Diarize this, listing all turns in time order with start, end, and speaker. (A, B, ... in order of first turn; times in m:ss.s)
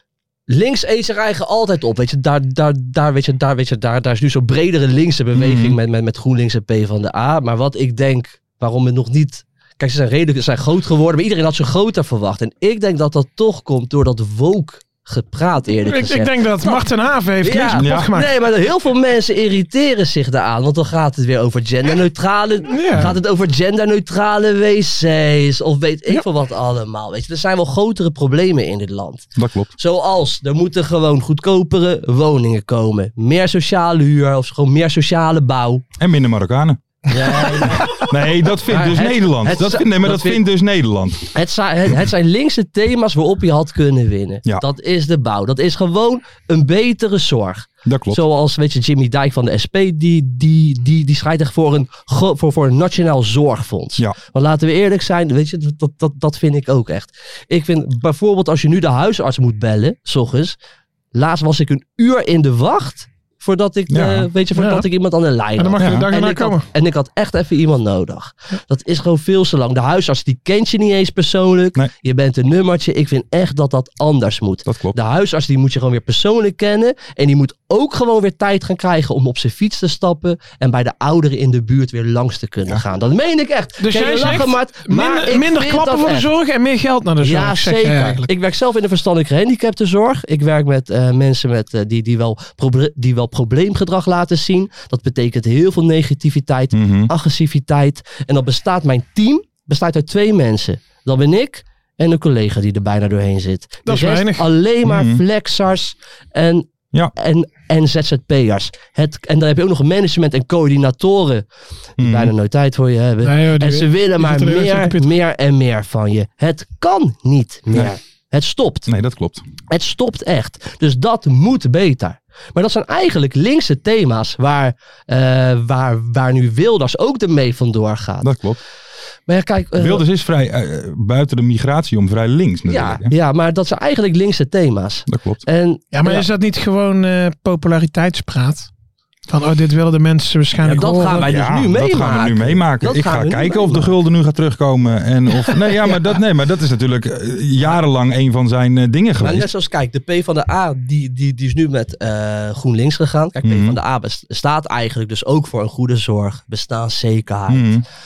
0:00.5-0:16.9 A
0:05.3-0:05.8 B
0:15.8-0:18.3 C
0:17.4-0:35.8 A
0:17.8-0:18.1 B
0:22.7-0:23.1 C
0:29.4-0:29.7 B
0:36.0-0:41.3 B
0:37.1-0:38.1 A
0:38.6-0:40.4 A
0:41.3-1:00.6 A
0:47.8-0:48.2 B
1:01.1-1:26.3 A
1:03.9-1:04.3 B
1:04.5-1:04.8 C
1:05.6-1:06.6 C
1:05.8-1:06.1 B
1:14.6-1:15.0 B
1:23.8-1:28.3 C
1:27.2-1:51.4 A
1:36.7-1:37.1 B
1:43.8-1:44.5 C
1:44.8-1:45.2 B
1:52.0-1:52.3 B
1:52.0-1:58.9 A
1:53.2-1:55.1 C
1:58.9-1:59.4 B
1:59.7-2:08.3 A
2:08.2-2:08.6 B
2:09.3-2:10.0 A
2:09.8-2:13.1 B
2:12.7-2:16.2 A
2:15.1-2:15.4 B
2:15.9-2:18.7 C
2:19.3-2:21.3 C
2:20.6-2:23.9 A
2:21.2-2:29.5 B
2:25.8-2:26.0 A
2:29.2-2:37.7 A
2:33.4-2:33.8 B
2:37.5-2:37.8 B